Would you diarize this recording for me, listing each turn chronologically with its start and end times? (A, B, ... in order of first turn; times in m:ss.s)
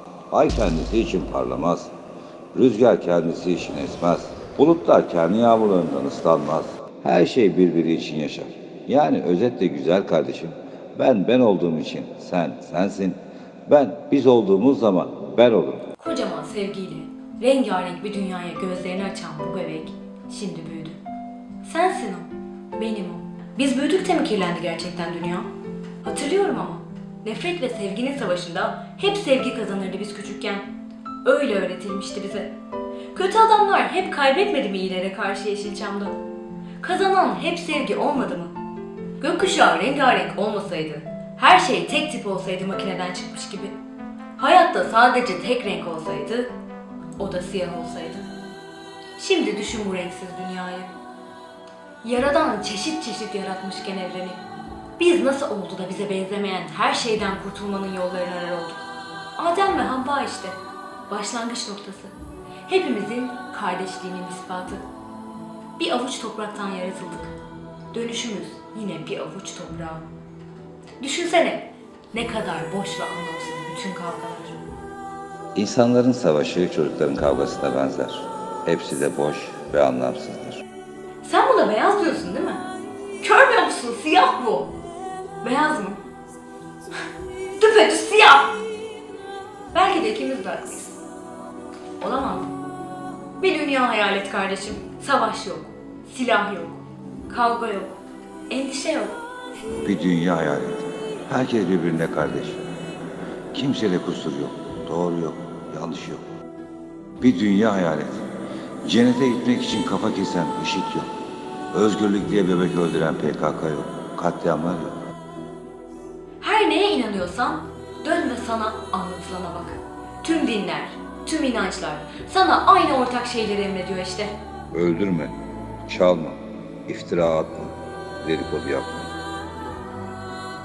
0:00.3-0:01.9 A
0:02.5-0:15.8 A
0:16.0-0:21.0 B
0:21.6-0:25.5 B
0:26.0-0:30.7 B
0:31.2-0:32.5 B
0:33.1-0:36.2 B
0:36.8-0:38.6 B
0:39.2-0:43.8 B
0:44.4-0:46.5 B
0:47.2-0:48.3 B
0:49.2-0:50.9 B
0:52.0-0:54.4 B
0:55.0-0:58.8 B
0:59.4-1:00.6 B
1:01.1-1:02.1 B
1:02.7-1:04.8 B
1:05.8-1:07.3 B
1:07.9-1:10.1 B
1:11.0-1:14.6 B
1:15.6-1:20.6 A
1:21.2-1:22.6 B
1:23.2-1:24.8 B
1:25.4-1:26.0 B
1:27.6-1:28.6 B
1:29.7-1:31.0 B
1:32.0-1:32.5 B
1:33.4-1:37.9 B
1:38.5-1:39.2 B
1:39.8-1:42.6 A
1:43.5-1:46.2 A
1:47.2-1:48.3 A
1:48.8-1:51.1 A
1:51.7-1:54.9 A
1:56.4-2:04.4 B
2:04.7-2:05.4 A
2:05.9-2:09.1 A